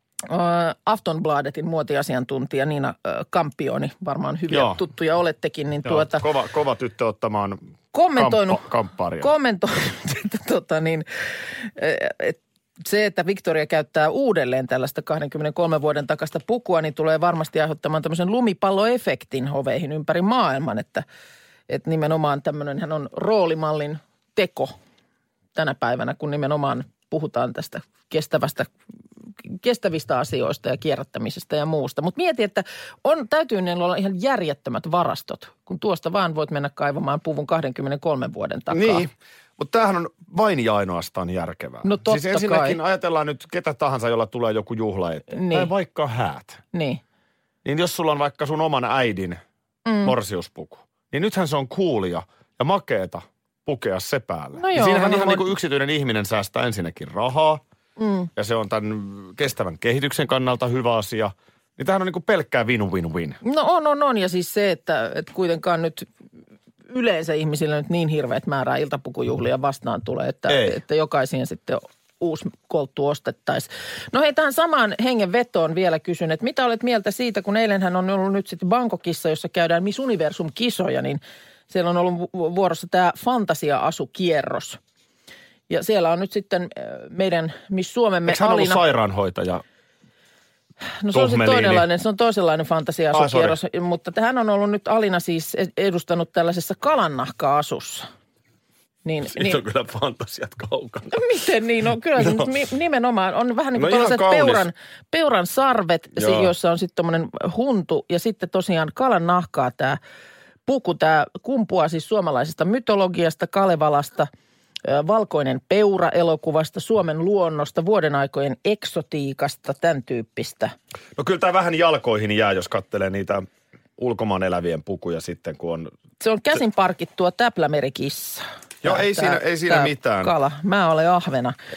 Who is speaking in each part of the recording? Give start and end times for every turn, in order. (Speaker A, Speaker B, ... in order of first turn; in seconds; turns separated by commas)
Speaker A: 0.3-6.2, Speaker B: 4.5-4.8, Speaker B: 5.8-7.6, Speaker A: 7.9-8.7, Speaker B: 8.2-9.3, Speaker A: 9.2-21.0, Speaker A: 21.7-24.7, Speaker A: 25.6-28.7, Speaker A: 29.4-39.1, Speaker B: 38.7-46.6, Speaker A: 41.8-42.8, Speaker A: 45.3-45.7, Speaker A: 46.7-47.0, Speaker B: 47.6-49.4, Speaker A: 49.9-50.2, Speaker B: 50.0-57.6, Speaker A: 54.6-55.5, Speaker A: 58.0-58.3, Speaker B: 58.4-63.4, Speaker A: 63.4-66.1, Speaker A: 66.9-84.8, Speaker B: 70.5-70.8, Speaker A: 85.7-88.8, Speaker B: 88.3-89.6, Speaker A: 91.0-98.0, Speaker B: 91.1-91.9, Speaker B: 93.1-93.6, Speaker A: 99.0-99.6, Speaker B: 99.3-101.2, Speaker A: 101.1-110.0, Speaker B: 102.2-102.5, Speaker B: 103.8-104.7, Speaker B: 106.2-106.5, Speaker A: 110.7-114.3, Speaker A: 114.8-120.7, Speaker B: 121.2-123.4, Speaker B: 124.0-125.9, Speaker A: 126.2-131.6, Speaker B: 128.8-130.3